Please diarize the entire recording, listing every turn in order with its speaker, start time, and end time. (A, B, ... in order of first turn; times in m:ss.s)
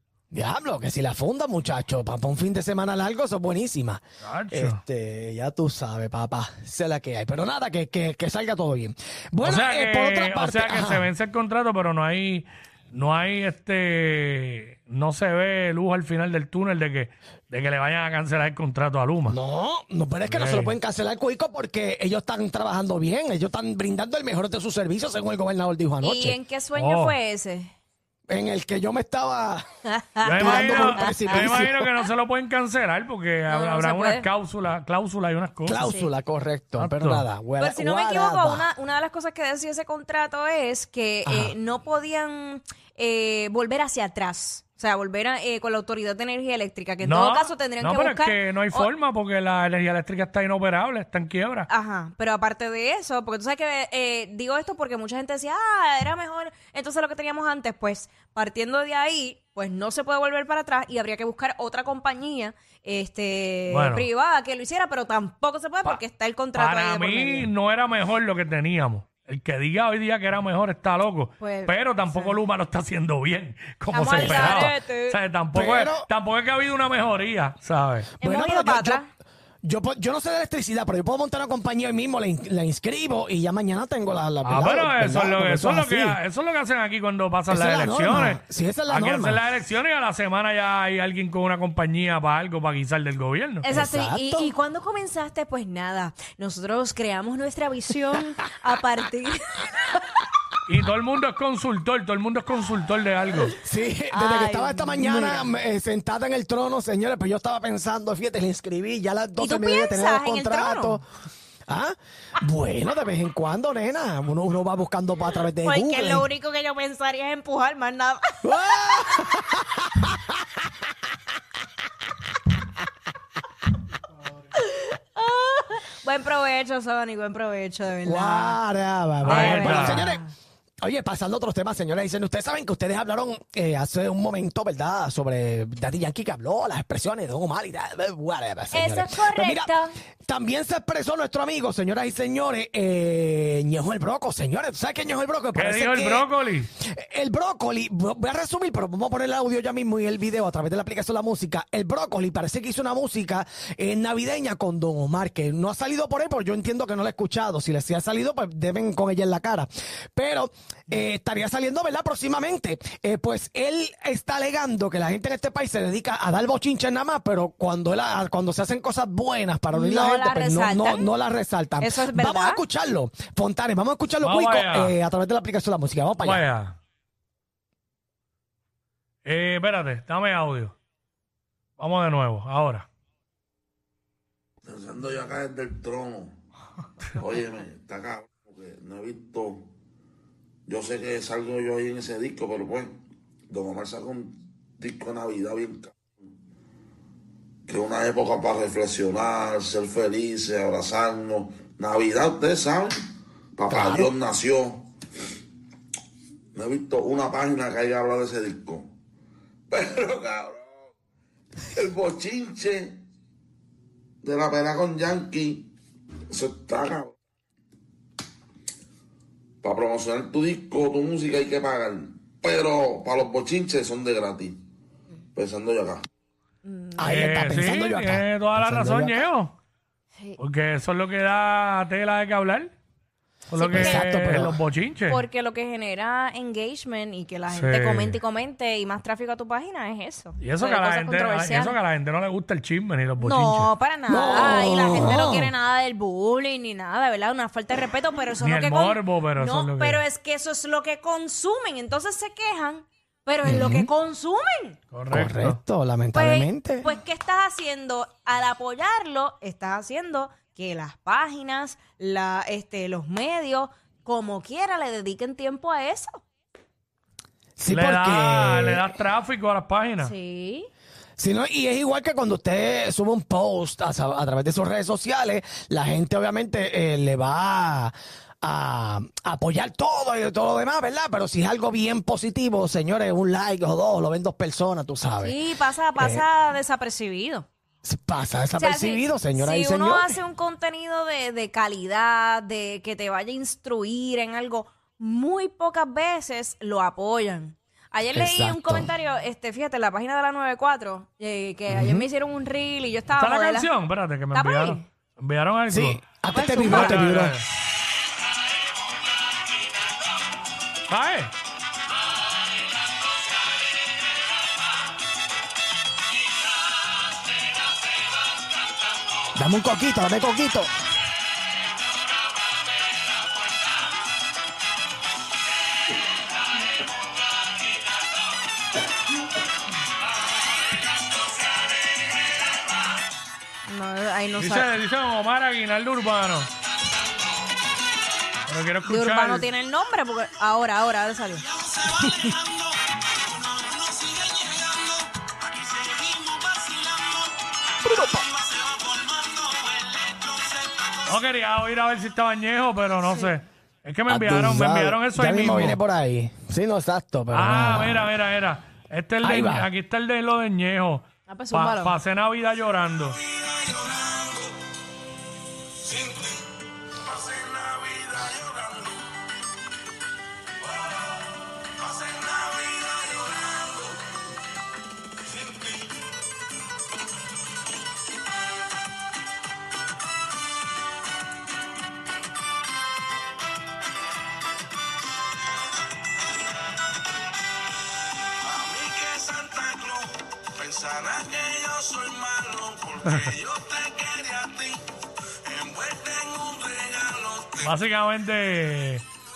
0:00.3-0:11.1 A
0:04.2-0:04.8 B
0:09.4-0:19.4 B
0:19.3-0:26.4 A
0:20.3-0:20.7 B
0:26.0-0:27.7 C
0:26.7-0:27.2 B
0:28.3-0:29.6 A
0:29.9-0:31.8 C
0:30.2-0:35.9 B
0:30.4-0:31.8 A
0:33.5-0:34.3 C
0:35.6-0:38.7 A
0:35.8-0:36.1 C
0:36.8-0:37.2 B
0:37.6-0:48.9 C
0:41.2-0:41.6 A
0:47.0-0:51.7 B
0:51.7-1:07.5 C
1:03.7-1:04.1 B
1:06.5-1:18.1 B
1:11.4-1:12.3 C
1:13.9-1:15.2 C
1:14.0-1:14.7 A
1:15.5-1:16.1 A
1:18.2-1:19.0 A
1:18.2-1:19.1 C
1:19.6-1:26.2 A
1:24.4-1:33.7 B
1:27.5-1:29.4 A
1:33.6-1:39.9 C
1:33.7-1:34.5 A
1:40.6-1:43.5 B
1:43.6-1:51.0 A
1:44.1-1:45.5 C
1:49.4-1:51.0 C
1:51.7-1:56.3 A
1:55.6-1:59.1 C
1:58.4-2:00.2 A
2:04.5-2:08.6 C
2:08.0-2:10.2 A
2:09.2-2:10.3 C
2:09.2-2:10.2 B
2:10.8-2:56.4 A
2:18.7-2:19.9 C
2:25.5-2:26.7 B
2:49.7-2:51.1 C
2:51.8-2:52.6 C
2:54.2-2:55.0 B
2:56.2-2:56.8 B
2:59.2-3:00.7 B
3:01.8-3:02.9 B
3:04.8-3:06.3 D
3:07.2-3:09.7 E
3:07.4-3:09.4 D
3:10.7-3:12.8 E
3:10.8-3:12.8 D
3:13.5-3:15.9 D
3:17.7-3:23.0 D
3:21.4-3:21.7 E
3:23.6-3:24.8 D
3:23.6-3:24.2 E
3:23.7-3:24.1 A
3:26.6-3:28.8 D
3:29.7-3:30.5 D
3:31.8-3:32.8 D
3:34.2-3:35.6 D
3:36.3-3:36.7 E
3:36.4-3:37.1 D
3:39.6-3:40.1 E
3:39.7-3:41.8 D
3:41.8-3:43.5 E
3:42.5-3:44.4 D
3:44.3-3:44.6 E
3:45.3-3:45.9 E
3:45.6-3:46.0 D
3:46.6-3:47.1 C
3:47.0-3:49.3 A
3:47.0-3:49.5 B
3:50.4-3:52.7 B
3:53.5-3:55.2 B
3:53.6-3:54.1 C
3:53.6-3:54.6 A
3:55.1-4:01.8 C
3:57.5-3:58.2 B
4:00.4-4:03.7 B
4:03.2-4:14.8 C
4:04.1-4:05.5 A
4:08.4-4:10.0 B
4:13.4-4:13.9 A
4:14.9-4:15.6 B
4:15.1-4:16.9 A
4:16.1-4:26.2 C
4:27.6-4:28.9 A
4:27.7-4:30.1 B
4:30.0-4:30.7 C
4:31.2-4:45.4 A
4:45.2-4:47.5 C
4:46.0-4:46.2 A
4:47.8-4:50.2 A
4:48.6-5:03.7 C
4:58.1-4:58.9 A
5:01.7-5:02.0 A
5:03.1-5:06.0 B
5:04.3-5:04.8 C
5:05.7-5:07.4 A
5:06.3-5:07.0 C
5:06.6-5:07.4 B
5:10.9-5:11.3 B
5:19.3-5:20.7 A
5:33.6-5:34.7 C
5:34.4-5:36.5 B
5:38.5-5:39.5 B
5:38.8-5:41.4 C
5:44.1-5:44.7 E
5:45.4-5:47.0 E
5:48.5-5:50.9 E
5:51.0-5:55.8 B
5:54.1-5:58.1 A
5:57.3-6:03.2 B
5:59.2-5:59.7 A
6:01.3-6:01.9 C
6:03.4-6:04.2 E
6:06.0-6:06.4 E
6:07.1-6:09.0 E
6:12.0-6:13.9 E
6:28.5-6:29.1 D
6:28.6-6:30.0 E
6:30.6-6:33.4 D
6:30.6-6:32.9 E
6:33.0-6:33.3 B
6:33.5-6:34.7 E
6:35.5-6:37.5 E
6:37.6-6:39.0 B